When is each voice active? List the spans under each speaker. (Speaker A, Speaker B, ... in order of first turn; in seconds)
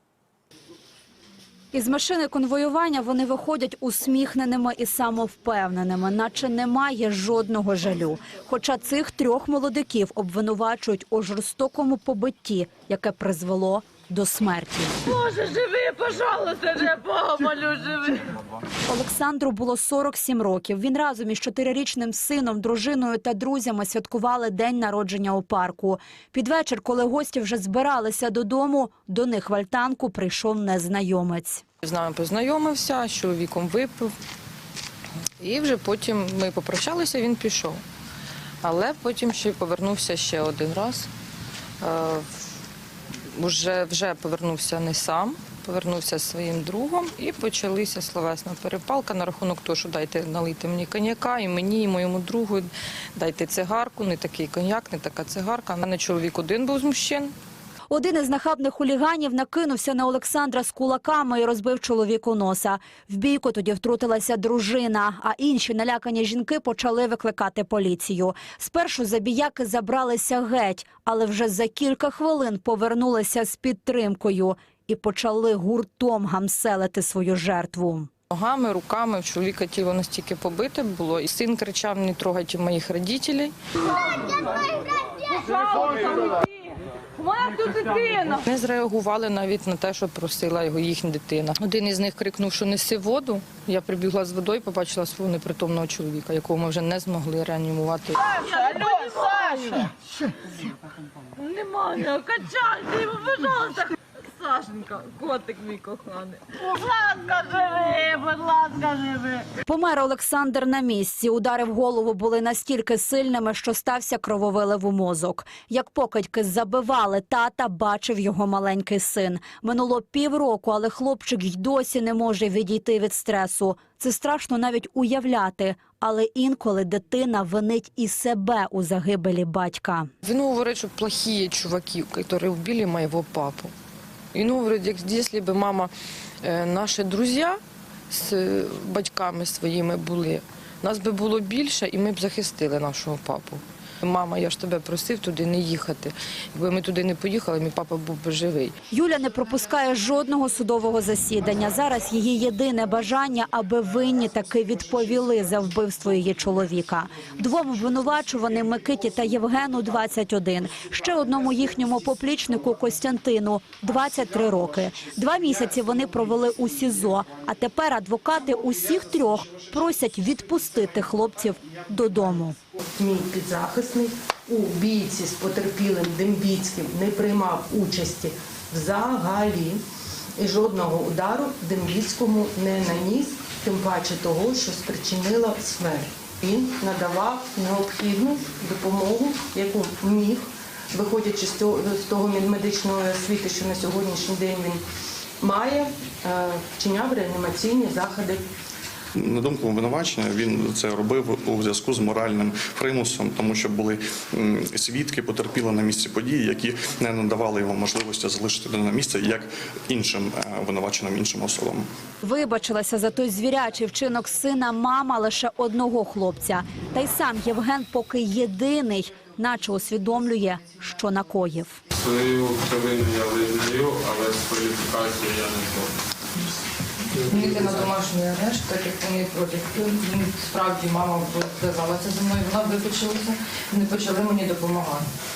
Speaker A: 1.7-15.2, 18.9-31.6, 57.9-78.1, 109.6-130.1, 148.9-172.6, 212.2-221.8
Speaker B: 15.2-18.3, 101.6-103.7, 104.4-109.5
Speaker C: 31.8-34.1, 35.4-37.8, 38.6-41.1, 41.8-42.3, 43.3-57.3, 78.3-83.5, 84.1-99.9, 101.4-103.9, 104.5-107.7, 108.8-109.0, 130.2-133.7, 134.3-135.9, 136.4-148.7, 227.2-235.1
Speaker D: 173.0-179.8, 180.4-194.8, 195.4-198.5
Speaker E: 199.2-211.9
Speaker F: 222.0-225.9